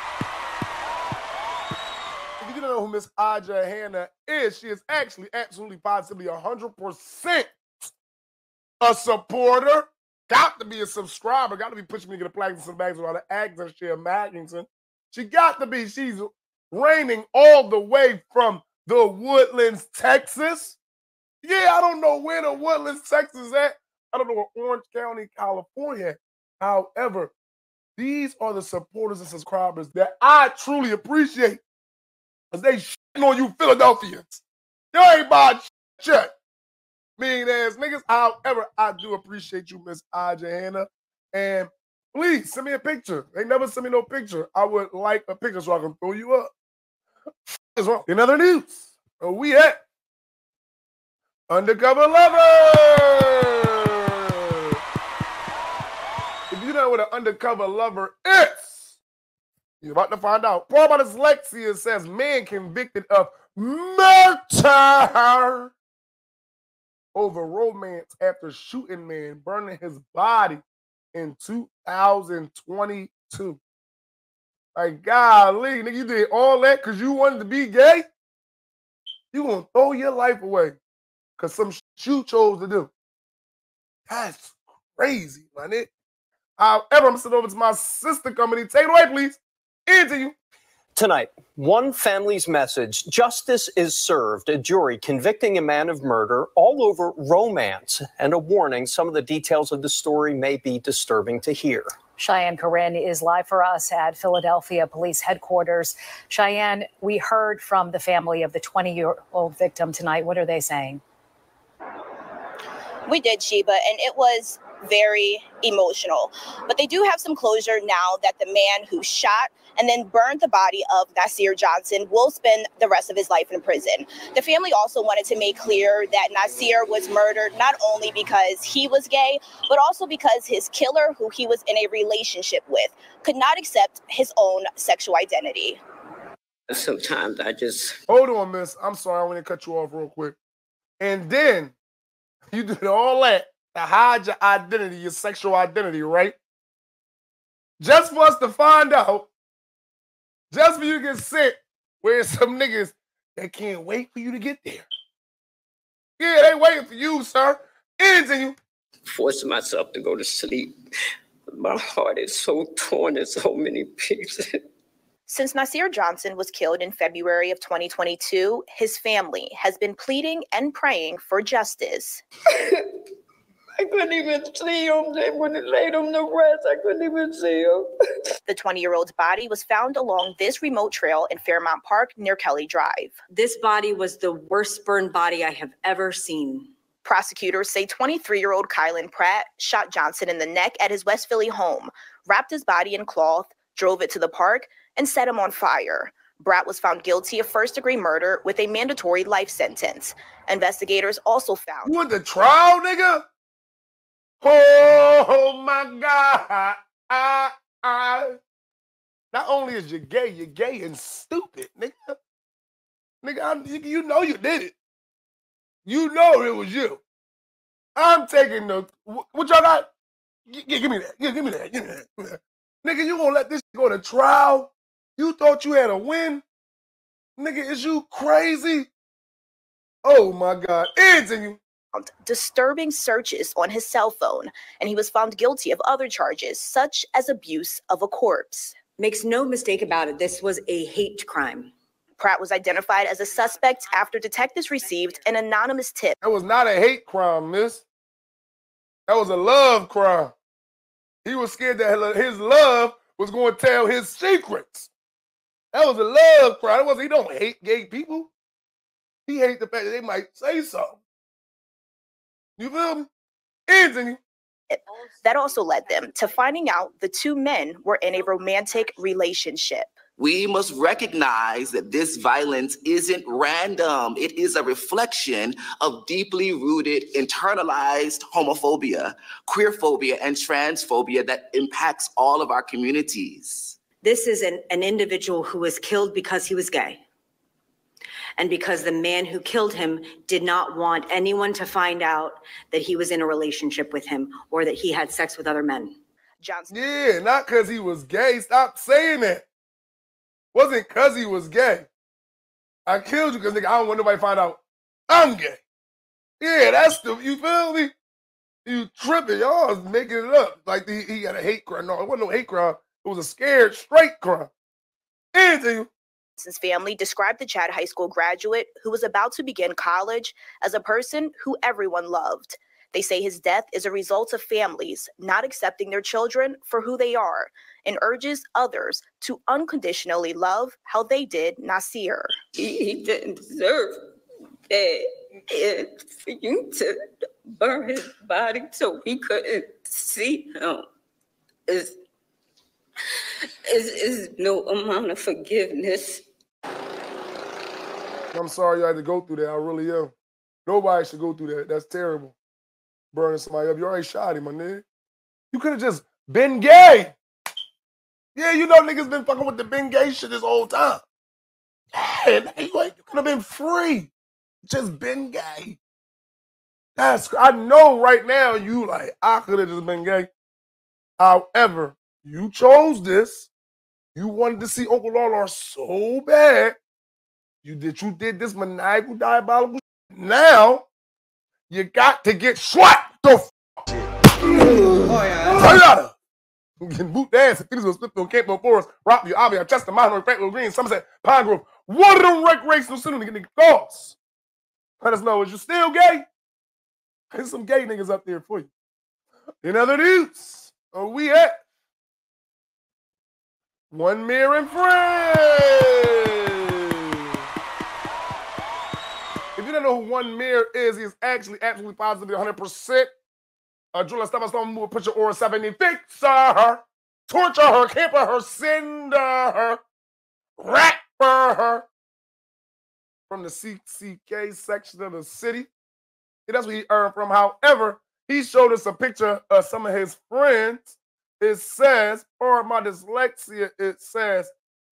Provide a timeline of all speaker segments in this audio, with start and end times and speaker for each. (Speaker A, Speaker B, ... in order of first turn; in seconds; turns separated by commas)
Speaker A: 2.4-7.5, Speaker A: 8.8-20.8, Speaker A: 21.4-27.3, Speaker A: 28.0-31.6, Speaker A: 32.5-34.4, Speaker A: 34.9-36.3, Speaker A: 37.2-46.5, Speaker A: 47.7-49.8, Speaker A: 51.5-53.5, Speaker A: 56.5-59.0, Speaker A: 59.8-65.7, Speaker A: 67.1-70.6, Speaker A: 71.1-73.6, Speaker A: 74.7-78.0, Speaker A: 79.3-80.8, Speaker A: 81.4-82.9, Speaker A: 84.1-85.9, Speaker A: 86.6-90.3, Speaker B: 90.9-102.0, Speaker C: 102.2-111.0, Speaker D: 113.1-135.8, Speaker E: 136.7-138.0, Speaker A: 138.1-140.4, Speaker A: 141.0-141.7, Speaker A: 142.5-146.4, Speaker A: 147.8-149.3, Speaker A: 150.5-154.8, Speaker A: 156.2-158.6, Speaker E: 159.0-160.7, Speaker E: 161.5-164.6, Speaker D: 165.3-172.2, Speaker E: 172.5-172.8, Speaker E: 173.8-177.9, Speaker D: 178.5-183.2, Speaker F: 183.3-186.7, Speaker D: 187.0-201.9, Speaker A: 201.8-203.2, Speaker A: 204.4-208.4, Speaker A: 209.3-212.2, Speaker A: 213.2-214.7, Speaker A: 215.8-217.0, Speaker A: 217.9-219.9, Speaker A: 220.5-226.4, Speaker A: 227.4-228.9, Speaker A: 230.0-231.6, Speaker D: 231.9-238.8, Speaker F: 239.0-241.7, Speaker D: 242.2-246.2, Speaker A: 246.2-247.8, Speaker A: 249.1-250.3, Speaker A: 251.2-254.9, Speaker A: 255.7-258.3, Speaker A: 259.3-261.0, Speaker A: 262.6-263.1, Speaker A: 263.7-264.2, Speaker D: 264.7-269.9, Speaker G: 270.2-283.8, Speaker F: 284.0-287.0, Speaker F: 288.4-295.9, Speaker D: 296.4-296.7, Speaker A: 296.7-299.4, Speaker A: 300.5-301.9, Speaker A: 302.9-305.6, Speaker A: 306.4-307.9, Speaker A: 308.6-314.5, Speaker A: 315.3-315.9, Speaker D: 316.4-332.3, Speaker E: 332.5-334.0, Speaker E: 334.7-340.9, Speaker E: 341.7-342.0, Speaker E: 343.7-346.2, Speaker A: 348.3-350.1, Speaker A: 350.6-352.3, Speaker A: 353.1-354.8, Speaker A: 355.5-357.1, Speaker A: 358.3-361.0, Speaker A: 361.9-364.1, Speaker A: 364.6-365.8, Speaker A: 367.0-370.3, Speaker A: 371.2-373.5, Speaker A: 374.1-376.8, Speaker A: 377.6-380.9, Speaker A: 381.7-383.5, Speaker A: 385.5-386.1, Speaker A: 386.8-394.1, Speaker A: 395.0-396.2, Speaker A: 397.3-398.7, Speaker A: 399.6-401.6, Speaker A: 403.9-406.0, Speaker A: 409.6-413.1, Speaker A: 413.9-419.8, Speaker A: 420.6-421.9, Speaker A: 423.3-425.7, Speaker A: 426.5-434.5